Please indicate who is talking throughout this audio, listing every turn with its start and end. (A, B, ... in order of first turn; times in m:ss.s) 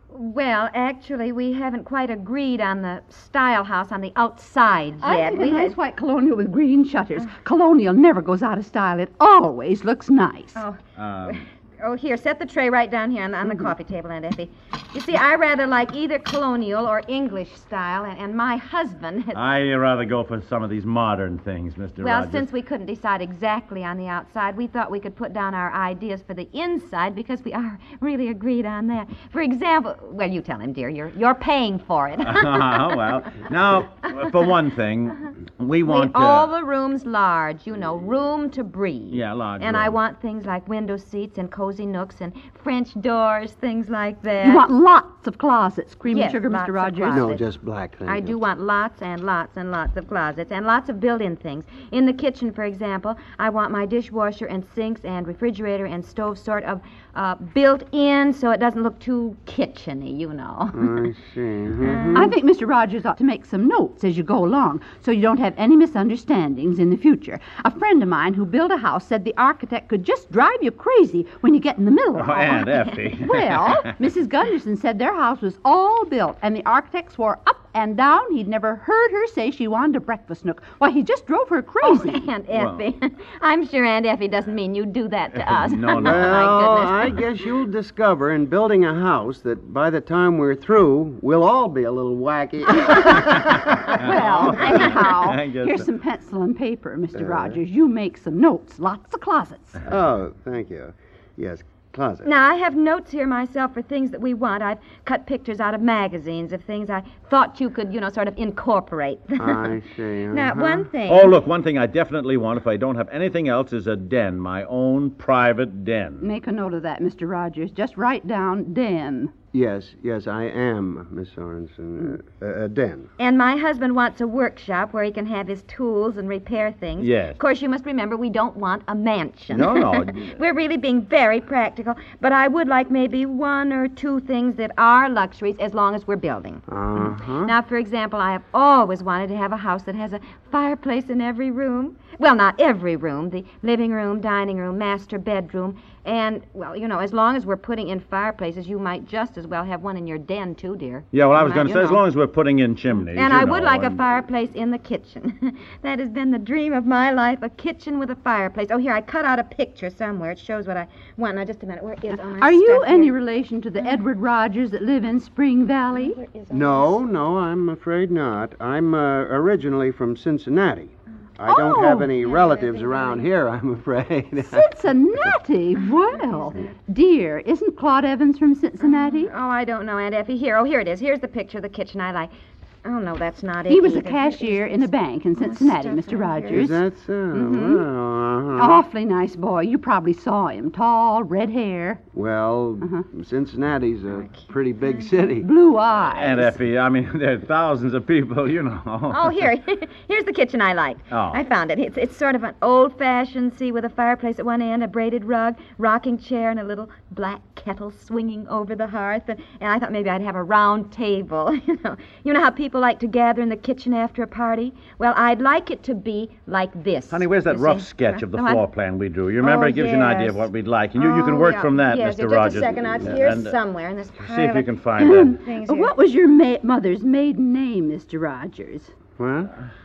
0:00.1-0:05.8 A
0:05.0-0:10.6 B
0:10.6-0:19.4 A
0:11.0-0:11.4 C
0:19.3-0:22.4 C
0:22.0-0:33.0 A
0:32.2-0:36.5 C
0:35.8-0:44.6 A
0:39.1-0:40.0 C
0:44.4-0:47.2 B
0:46.1-0:47.4 A
0:47.1-0:48.4 D
0:48.0-1:01.1 A
1:00.7-1:02.3 D
1:01.8-1:02.3 A
1:02.1-1:22.3 B
1:12.2-1:14.0 C
1:21.8-1:27.2 A
1:22.5-1:22.8 C
1:25.6-1:26.6 C
1:26.0-1:34.0 D
1:32.8-1:33.3 B
1:33.3-1:35.9 C
1:33.9-1:39.8 B
1:37.1-1:37.6 D
1:39.8-1:42.3 D
1:42.2-1:49.8 A
1:49.4-1:50.9 D
1:50.3-1:51.4 A
1:51.1-1:56.3 C
1:56.2-1:59.3 B
1:59.5-2:03.1 D
2:03.2-2:32.0 A
2:07.0-2:07.4 C
2:09.5-2:10.4 C
2:16.7-2:17.5 D
2:31.1-2:34.1 C
2:33.0-2:43.1 A
2:42.2-2:46.2 B
2:45.9-2:47.0 A
2:46.5-2:54.7 D
2:51.4-2:52.1 B
2:52.2-2:53.3 A
2:54.4-2:59.3 B
2:56.3-2:56.6 A
2:58.9-3:02.3 A
3:02.8-3:06.7 A
3:03.6-3:07.8 B
3:06.5-3:08.8 D
3:08.5-3:12.0 B
3:12.1-3:15.5 D
3:14.3-3:15.1 A
3:15.4-3:16.6 B
3:16.0-3:19.4 C
3:19.1-3:38.6 A
3:21.1-3:21.4 C
3:37.1-3:43.6 C
3:39.4-3:44.7 A
3:44.2-3:45.4 C
3:45.0-3:48.9 B
3:45.2-3:45.9 A
3:49.2-3:49.5 D